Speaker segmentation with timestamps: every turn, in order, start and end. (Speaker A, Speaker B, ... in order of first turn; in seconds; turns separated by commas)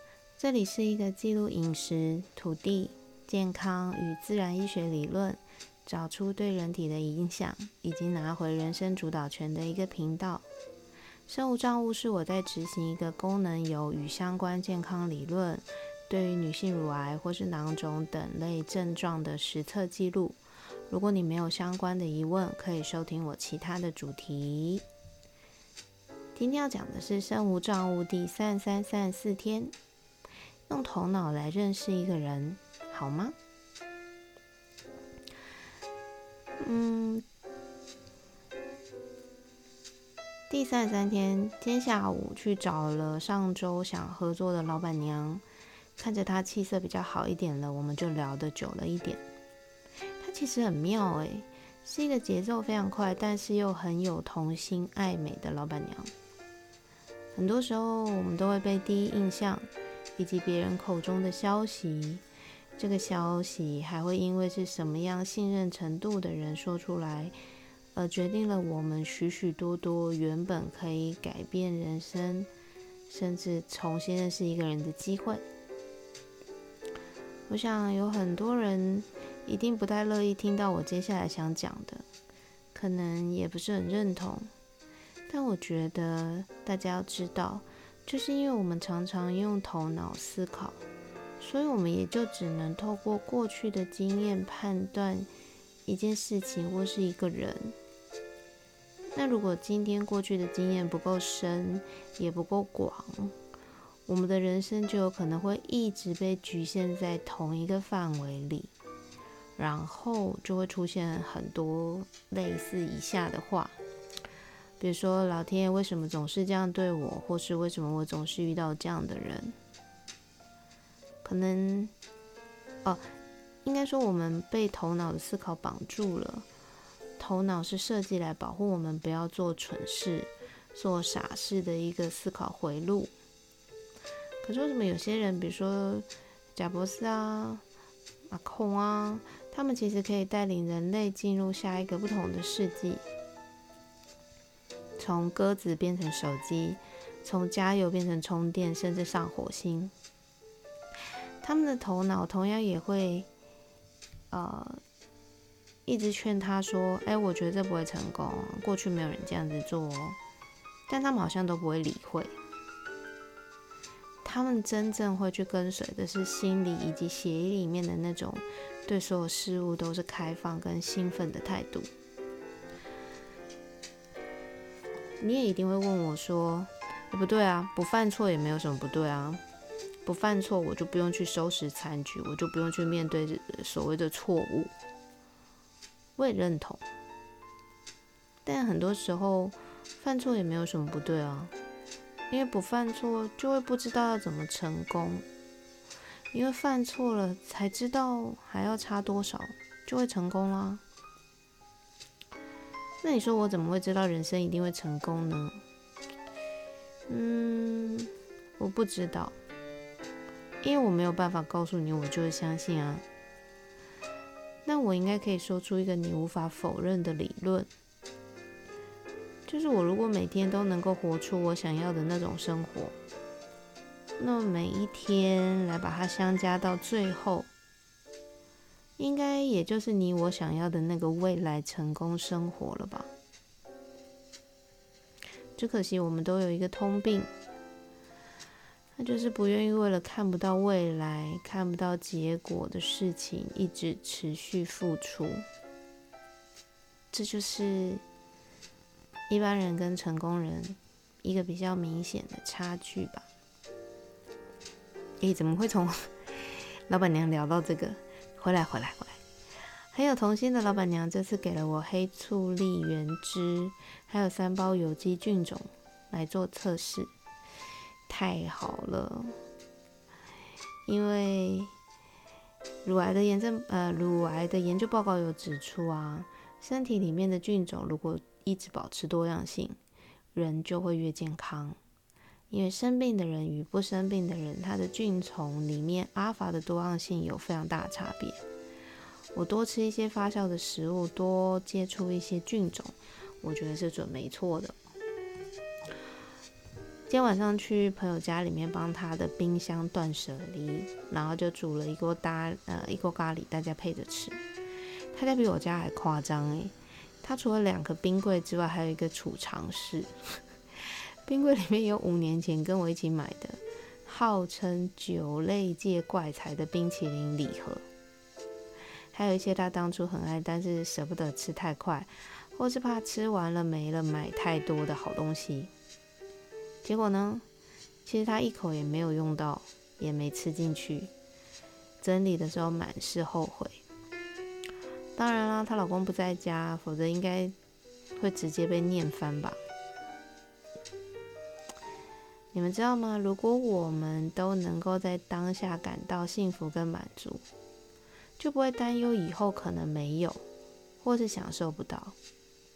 Speaker A: 0.4-10.4, Speaker A: 11.3-20.4, Speaker A: 20.9-24.8, Speaker A: 26.4-29.7, Speaker A: 30.7-33.4, Speaker A: 36.6-37.2, Speaker A: 40.5-45.4, Speaker A: 46.0-49.2, Speaker A: 50.2-56.1, Speaker A: 57.3-62.2, Speaker A: 62.8-67.3, Speaker A: 67.9-72.5, Speaker A: 73.1-75.4, Speaker A: 77.5-82.0, Speaker A: 82.7-84.5, Speaker A: 85.3-90.8, Speaker A: 91.4-95.3, Speaker A: 95.8-97.8, Speaker A: 99.1-103.3, Speaker A: 104.1-108.7, Speaker A: 109.6-113.8, Speaker A: 114.8-119.5, Speaker A: 121.2-121.9, Speaker A: 123.6-126.5, Speaker A: 127.2-133.1, Speaker A: 134.4-137.6, Speaker A: 138.3-143.0, Speaker A: 145.0-149.9, Speaker A: 151.4-153.3, Speaker A: 154.3-154.8, Speaker A: 155.8-160.2, Speaker A: 160.9-162.3, Speaker A: 164.2-171.9, Speaker A: 175.2-179.4, Speaker A: 180.0-184.7, Speaker A: 186.2-186.8, Speaker A: 188.4-191.5, Speaker A: 192.3-195.2, Speaker A: 196.3-200.8, Speaker A: 203.0-205.6, Speaker A: 207.1-209.4, Speaker A: 210.6-213.0, Speaker A: 214.6-217.7, Speaker A: 219.5-222.9, Speaker A: 224.2-227.5, Speaker A: 229.0-233.1, Speaker A: 235.6-237.3, Speaker A: 238.9-245.4, Speaker A: 247.1-248.0, Speaker A: 249.3-253.3, Speaker A: 255.2-259.2, Speaker A: 259.9-267.1, Speaker A: 268.1-269.4, Speaker A: 270.9-271.7, Speaker A: 272.8-279.8, Speaker A: 280.3-281.8, Speaker A: 282.5-288.4, Speaker A: 289.3-294.8, Speaker A: 297.1-304.4, Speaker A: 305.1-310.1, Speaker A: 310.8-317.8, Speaker A: 319.1-325.7, Speaker A: 326.8-327.4, Speaker A: 328.0-331.1, Speaker A: 332.0-333.8, Speaker A: 335.1-337.5, Speaker A: 338.2-339.6, Speaker A: 342.5-347.4, Speaker A: 348.4-350.4, Speaker A: 351.0-352.1